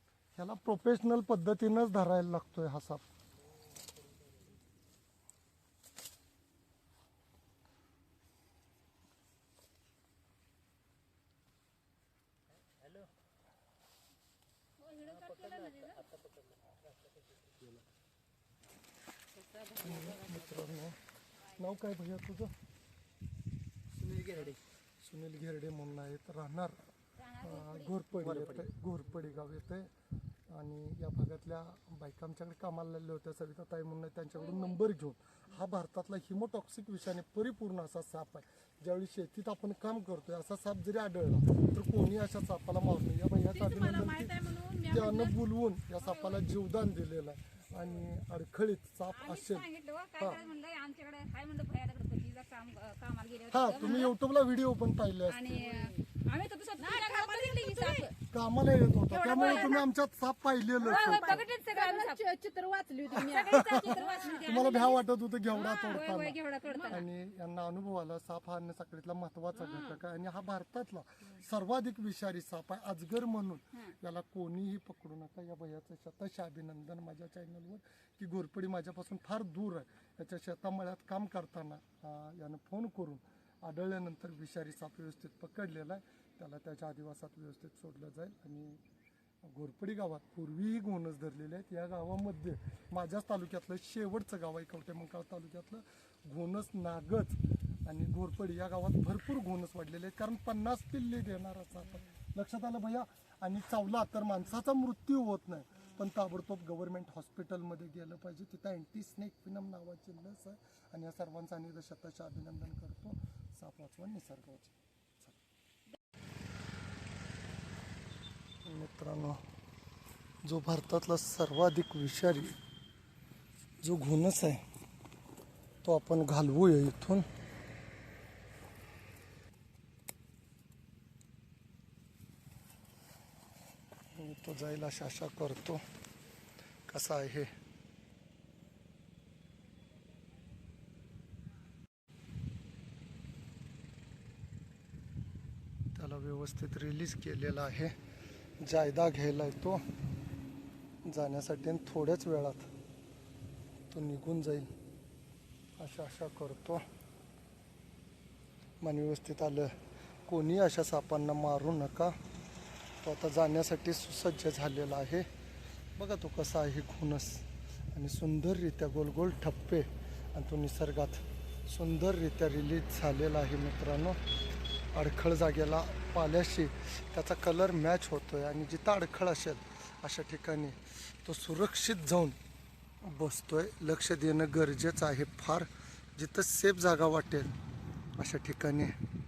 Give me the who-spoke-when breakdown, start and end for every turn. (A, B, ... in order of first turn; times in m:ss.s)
0:00.4-0:03.0 A
0:14.8-0:16.1 B
0:15.6-0:16.3 C
0:19.3-0:20.8 D
0:19.8-0:21.0 A
0:21.6-0:22.5 A
0:23.9-0:24.6 C
0:25.0-0:26.8 A
0:27.2-0:28.2 B
0:27.4-0:29.9 A
0:28.2-0:28.7 C
0:30.5-0:49.7 A
0:43.5-0:45.4 D
0:46.0-0:46.4 B
0:47.7-0:48.0 D
0:49.1-0:54.2 B
0:50.3-0:50.5 D
0:53.5-0:55.6 A
0:55.3-0:58.1 B
0:55.5-0:56.0 D
0:56.8-0:58.1 D
0:58.3-1:01.4 A
0:59.1-0:59.8 D
1:00.8-1:04.8 D
1:00.8-1:02.2 B
1:03.1-1:05.0 B
1:03.1-1:28.8 A
1:05.5-1:07.1 B
1:06.6-1:07.0 D
1:09.5-1:10.0 D
1:29.4-1:55.4 A
1:58.6-1:59.4 A
2:00.4-2:02.6 A
2:03.8-2:04.6 A
2:05.8-2:07.3 A
2:14.1-2:15.8 A
2:16.9-2:17.5 A
2:25.9-2:28.0 A
2:28.6-2:29.8 A
2:31.0-2:32.7 A
2:33.9-2:34.7 A
2:35.8-2:36.8 A
2:38.8-2:42.2 A
2:43.0-2:45.3 A
2:46.0-2:54.2 A
2:54.9-3:02.4 A
3:03.0-3:07.5 A
3:08.2-3:08.9 A